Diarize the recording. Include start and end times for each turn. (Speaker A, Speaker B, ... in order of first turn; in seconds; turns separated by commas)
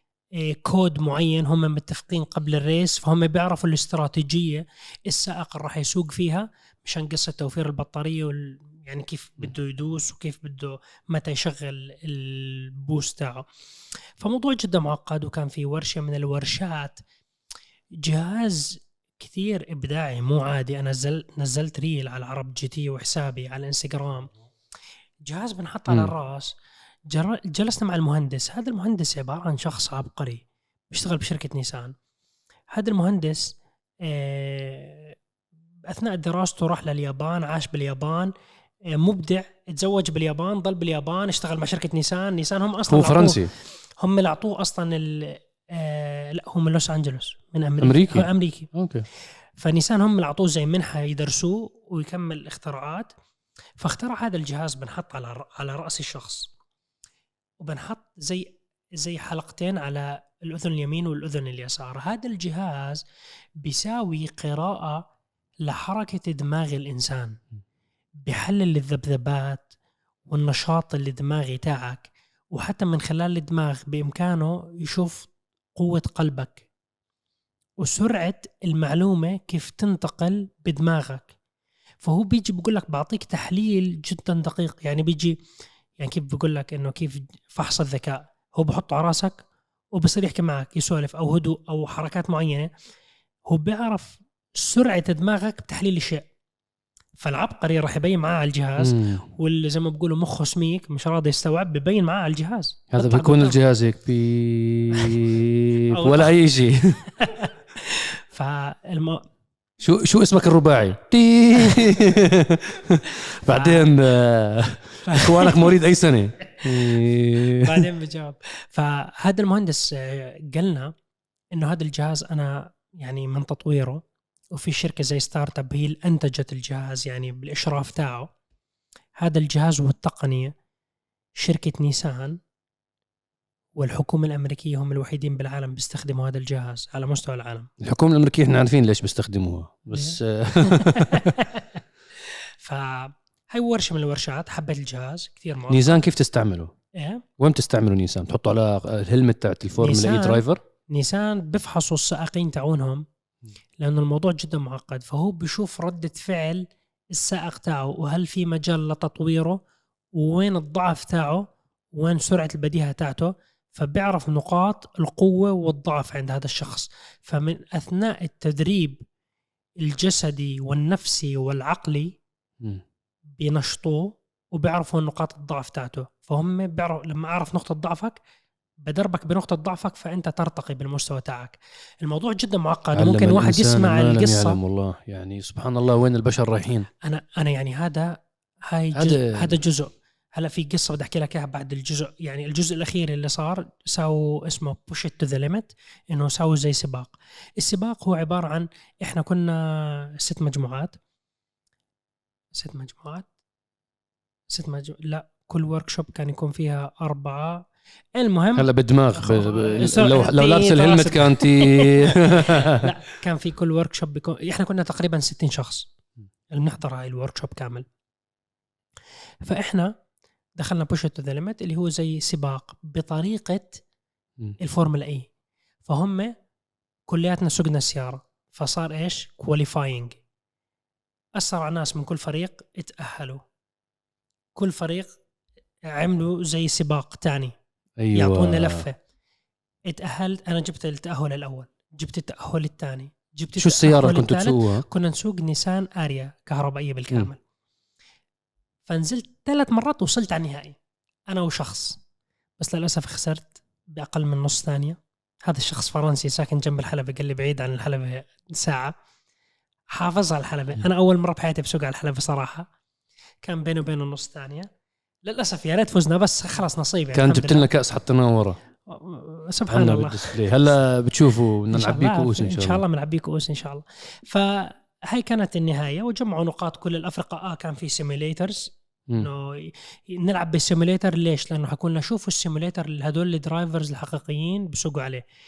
Speaker A: 0.4-13.5, Speaker A: 14.2-17.0, Speaker A: 18.0-24.3, Speaker A: 25.2-26.5, Speaker A: 27.1-31.9, Speaker A: 32.7-35.1, Speaker A: 35.9-38.3, Speaker A: 38.9-43.4, Speaker B: 42.9-43.5, Speaker A: 44.0-48.7, Speaker B: 47.8-49.0, Speaker A: 49.6-53.1, Speaker A: 53.8-56.5, Speaker A: 57.6-63.0, Speaker A: 63.6-65.1, Speaker A: 65.6-67.4, Speaker A: 68.2-69.7, Speaker A: 70.3-76.6, Speaker A: 77.8-81.3, Speaker A: 82.0-85.4, Speaker A: 86.0-89.4, Speaker A: 89.9-92.7, Speaker A: 93.5-96.2, Speaker A: 97.2-103.6, Speaker B: 98.8-99.2, Speaker B: 102.9-107.0, Speaker A: 106.0-106.4, Speaker A: 107.2-109.2, Speaker B: 109.8-117.9, Speaker A: 111.6-111.9, Speaker A: 113.5-113.9, Speaker A: 115.1-115.8, Speaker A: 117.6-120.9, Speaker A: 121.5-128.3, Speaker A: 129.2-130.5, Speaker A: 131.4-132.4, Speaker A: 133.8-137.7, Speaker B: 137.8-141.4, Speaker A: 139.9-146.0, Speaker B: 145.7-146.7, Speaker A: 147.0-147.2, Speaker B: 147.4-150.6, Speaker A: 149.8-153.1, Speaker A: 153.8-159.6, Speaker A: 160.1-169.0, Speaker A: 169.8-172.2, Speaker A: 173.4-178.2, Speaker A: 178.8-184.6, Speaker B: 182.9-186.9, Speaker A: 187.0-201.0, Speaker B: 188.9-189.5, Speaker A: 202.5-203.3, Speaker A: 204.5-215.9, Speaker B: 208.6-212.9, Speaker A: 216.5-217.9, Speaker A: 219.4-219.9, Speaker A: 220.6-223.8, Speaker A: 224.6-225.3, Speaker A: 225.9-226.3, Speaker A: 227.1-230.2, Speaker A: 231.4-233.4, Speaker A: 234.6-235.1, Speaker A: 235.9-237.5, Speaker B: 238.0-238.8, Speaker A: 238.1-239.0, Speaker A: 239.9-247.4, Speaker B: 243.6-244.8, Speaker A: 248.9-250.8, Speaker A: 251.3-252.0, Speaker A: 252.6-258.9, Speaker A: 259.9-262.7, Speaker A: 263.4-264.7, Speaker A: 265.2-267.7, Speaker B: 267.1-268.6, Speaker A: 268.9-270.4, Speaker B: 269.7-272.8, Speaker A: 271.7-285.2